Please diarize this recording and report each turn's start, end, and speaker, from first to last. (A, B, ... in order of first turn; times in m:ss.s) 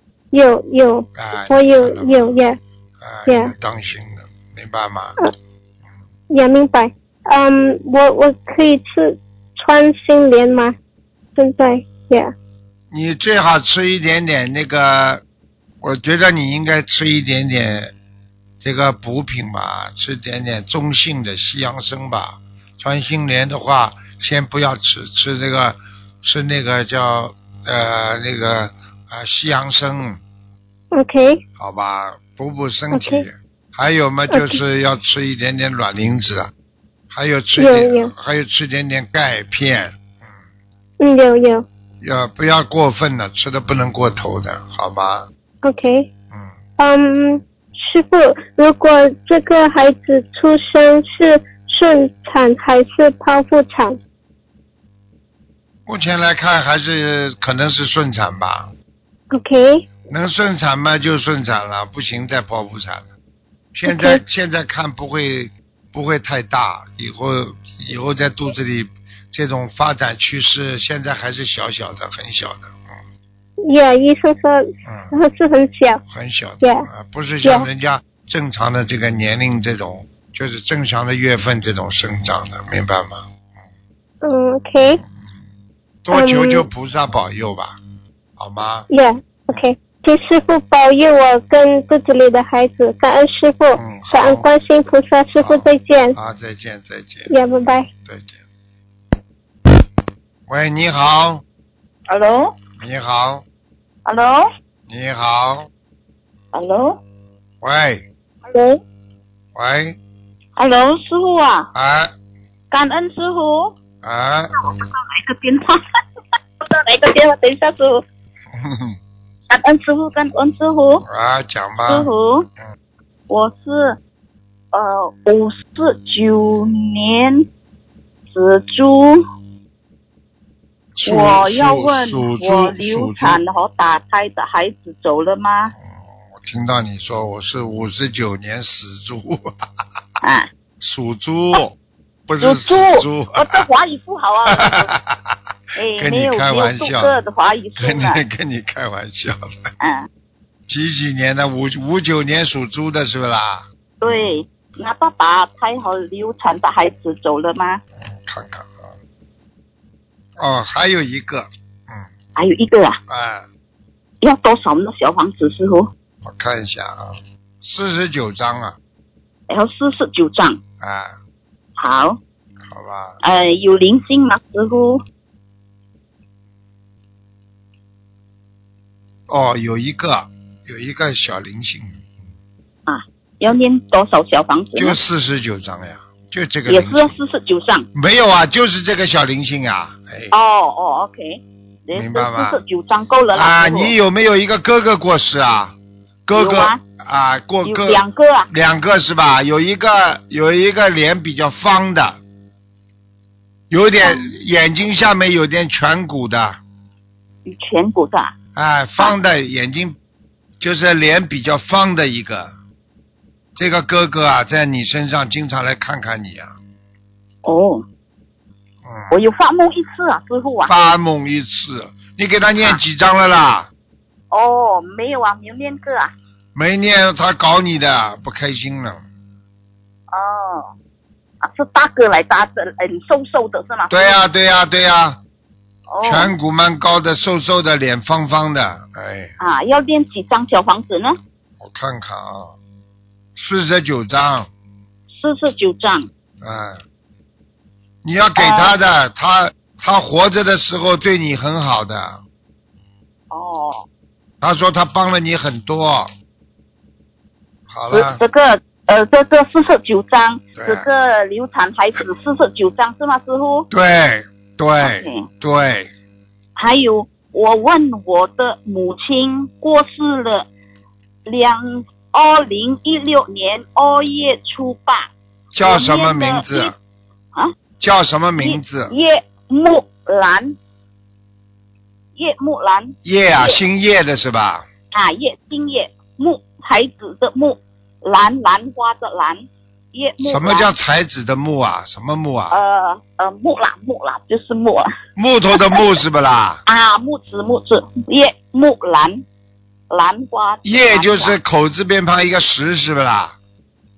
0:00.3-0:02.6 A
0:01.2-0:02.3 B
0:03.0-0:05.2 B
0:03.2-0:03.5 A
0:06.3-0:10.7 A
0:11.4-0:12.3 A
0:12.9-0:15.2 B
0:15.8-0:17.9 B
0:18.6-0:30.2 B
0:30.9-0:31.4 A
0:31.6-0:36.5 B
0:32.9-0:33.2 A
0:34.3-0:34.6 A
0:37.1-0:40.3 B
0:37.6-0:38.1 A
0:41.0-0:41.6 A
0:42.0-0:45.3 B
0:45.6-0:46.1 A
0:46.8-0:54.0 A
0:55.8-0:58.7 B
0:59.3-0:59.9 A
1:00.1-1:03.1 B
1:03.7-1:12.9 B
1:03.8-1:04.2 A
1:13.6-1:16.0 A
1:14.8-1:15.1 B
1:16.1-1:23.3 B
1:16.6-1:16.8 A
1:24.2-1:25.0 A
1:26.0-1:27.8 B
1:26.1-1:26.7 A
1:28.4-1:28.9 B
1:28.9-1:36.2 A
1:33.7-1:34.5 B
1:35.4-1:37.3 B
1:37.3-1:37.9 A
1:38.0-1:38.4 B
1:40.5-1:41.4 B
1:42.1-1:42.5 C
1:42.8-1:43.4 B
1:44.0-1:44.5 C
1:44.9-1:45.7 B
1:46.5-1:47.0 C
1:47.6-1:48.0 B
1:48.4-1:48.8 C
1:49.5-1:50.0 B
1:50.6-1:51.7 C
1:51.7-1:52.1 B
1:52.7-1:53.7 C
1:54.0-1:54.5 B
1:54.6-1:55.8 C
1:56.6-1:58.0 C
1:58.5-1:59.0 B
1:59.5-2:01.0 C
2:01.0-2:02.1 B
2:01.9-2:02.5 C
2:03.3-2:04.0 C
2:04.7-2:07.4 C
2:08.3-2:09.2 C
2:10.9-2:13.4 B
2:11.0-2:15.7 C
2:15.9-2:19.5 B
2:20.2-2:20.5 C
2:20.8-2:21.8 B
2:22.3-2:23.7 B
2:22.4-2:24.9 C
2:24.5-2:25.4 B
2:25.8-2:28.2 C
2:26.0-2:27.2 B
2:27.8-2:29.7 B
2:29.8-2:30.1 C
2:30.7-2:34.3 B
2:34.0-2:37.8 C
2:38.0-2:38.9 B
2:40.4-2:42.1 B
2:42.4-2:43.0 C
2:43.1-2:43.5 B
2:44.2-2:45.9 C
2:46.2-2:48.8 B
2:49.5-2:50.6 C
2:50.8-2:51.2 B
2:51.8-2:52.2 C
2:52.7-2:53.2 B
2:53.2-2:55.0 C
2:59.3-3:02.0 B
3:02.9-3:05.0 C
3:04.8-3:07.1 B
3:06.7-3:07.9 C
3:07.9-3:10.3 B
3:10.3-3:13.9 C
3:11.9-3:12.6 B
3:13.3-3:22.2 B
3:16.3-3:16.8 C
3:17.6-3:18.5 C
3:23.7-3:26.6 B
3:24.0-3:24.3 C
3:27.4-3:28.3 C
3:28.5-3:30.0 B
3:30.6-3:32.5 B
3:33.6-3:36.5 B
3:37.4-3:37.8 C
3:38.8-3:39.1 B
3:39.1-3:40.9 C
3:40.7-3:43.7 B
3:44.3-3:46.1 C
3:46.5-3:49.0 B
3:50.1-3:50.7 C
3:51.4-3:54.2 C
3:53.9-3:55.2 B
3:55.9-3:56.3 C
3:56.0-3:59.3 B
3:59.4-4:01.2 C
4:01.6-4:02.5 B
4:03.4-4:04.5 B
4:05.1-4:06.1 C
4:06.4-4:06.8 B
4:08.0-4:12.2 B
4:08.4-4:08.7 C
4:13.3-4:13.8 C
4:14.4-4:16.1 B
4:17.7-4:18.2 B
4:17.9-4:23.7 C
4:20.6-4:20.9 B
4:23.7-4:25.9 B
4:24.8-4:25.3 C
4:26.6-4:30.5 C
4:31.2-4:36.7 C
4:35.5-4:36.7 B
4:37.8-4:38.9 B
4:38.4-4:40.6 C
4:42.2-4:43.6 C
4:43.0-4:44.6 B
4:44.9-4:50.7 C
4:50.2-4:52.6 B
4:52.5-4:54.9 C
4:55.2-4:56.6 B
4:55.5-4:55.9 C
4:56.6-4:59.2 C
4:59.9-5:01.4 C
5:00.6-5:03.3 B